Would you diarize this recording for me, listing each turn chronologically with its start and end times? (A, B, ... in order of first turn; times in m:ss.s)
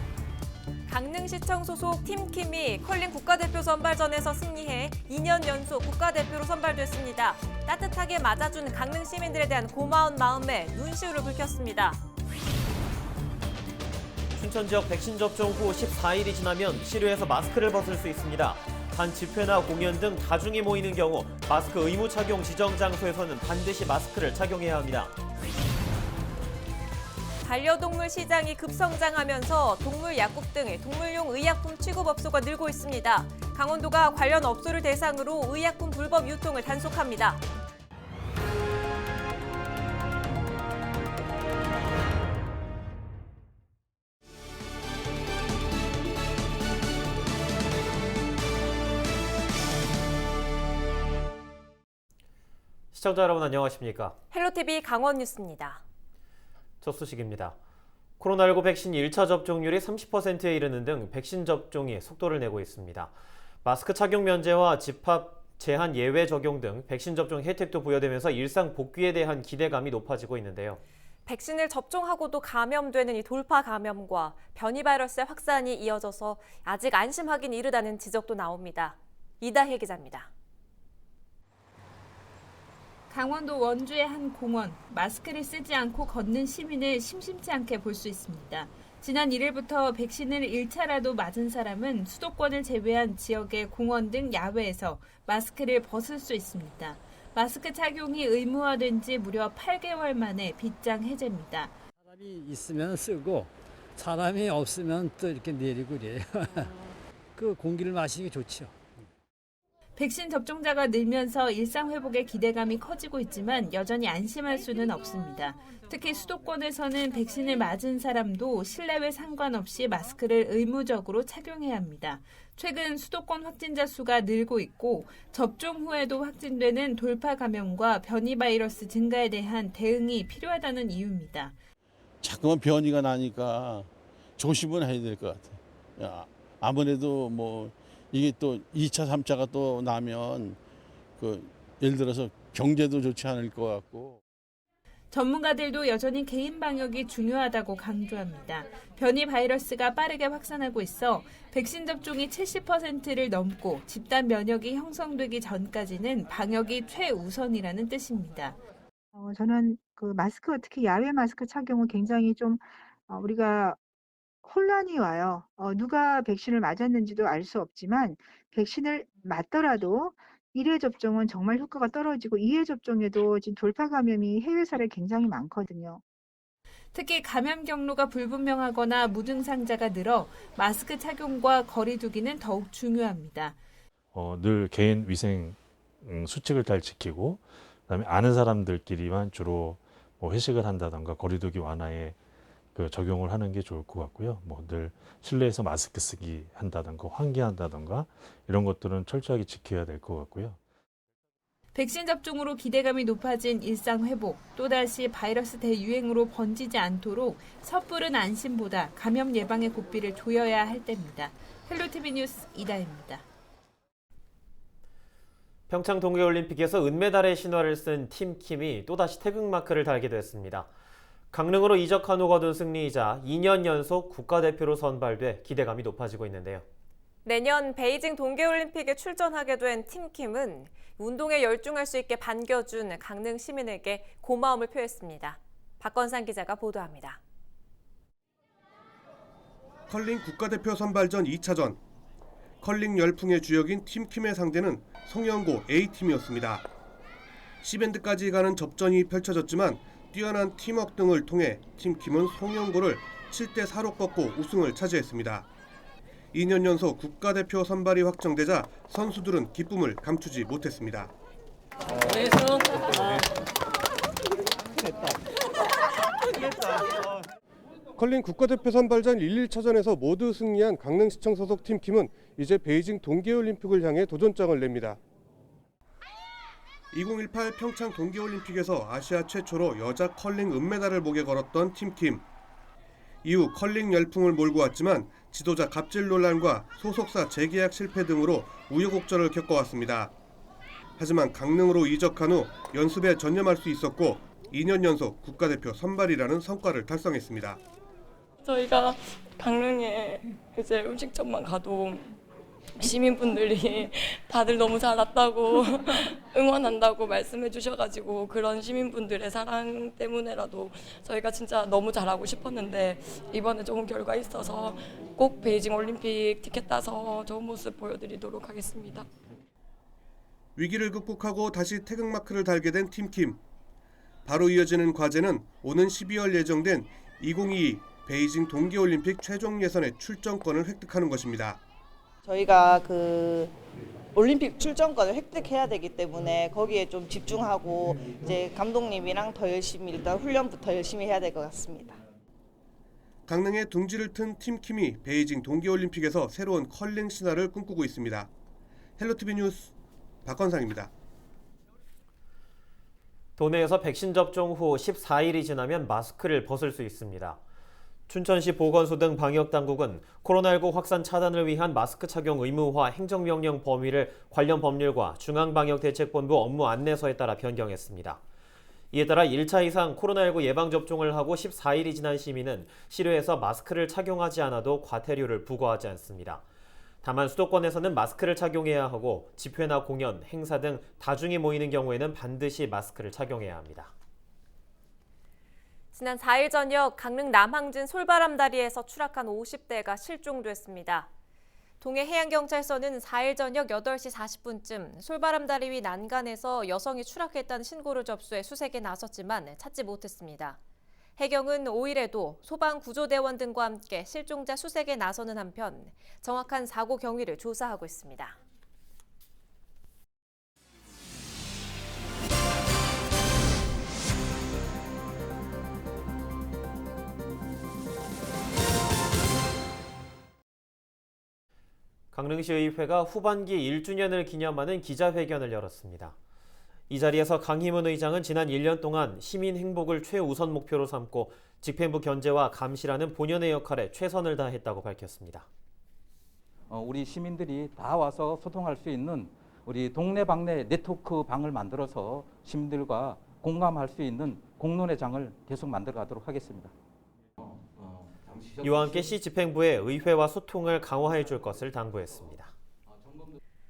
0:00.8-0:12.0 A
0:14.3-0:25.1 B
0:27.4-0:37.4 A
0:52.9-0:54.2 B
0:54.3-0:55.8 A
0:56.8-0:57.6 B
0:58.2-1:03.1 B
1:03.6-1:10.8 B
1:11.2-1:20.3 A
1:23.1-1:41.7 C
1:42.0-1:46.7 D
1:47.3-1:48.7 D
1:50.0-2:11.5 C
2:12.2-2:20.6 E
2:21.2-2:24.2 E
2:25.1-2:38.6 C
2:39.1-2:43.8 F
2:44.4-2:56.0 F
2:56.9-3:03.6 C
3:04.1-3:12.2 G
3:12.7-3:20.6 G
3:21.7-3:33.2 C
3:35.7-3:40.7 B
3:41.3-3:46.6 B
3:47.2-3:57.2 A
3:59.9-4:01.8 H
4:02.6-4:06.7 H
4:07.6-4:15.5 H
4:16.3-4:21.1 H
4:22.1-4:22.6 I
4:28.0-4:35.0 H
4:36.9-4:42.2 H
4:43.2-4:50.1 H
4:51.0-4:57.6 H
4:58.4-5:02.1 I
5:02.8-5:19.1 I
5:20.6-5:23.4 H
5:24.2-5:31.6 H
5:32.2-5:33.5 J
5:34.1-5:42.0 J
5:43.3-5:48.3 H
5:49.0-5:49.7 H
5:50.2-5:50.9 H
5:53.4-5:57.4 B
5:58.1-6:08.2 B
6:08.9-6:16.4 B
6:17.0-6:23.9 B
6:25.9-6:31.1 A
6:31.8-6:40.6 A
6:41.2-6:48.4 A
7:02.1-7:06.1 B
7:06.9-7:15.5 B
7:16.7-7:26.7 K
7:27.4-7:29.2 K
7:28.6-7:32.5 B
7:32.9-7:33.4 K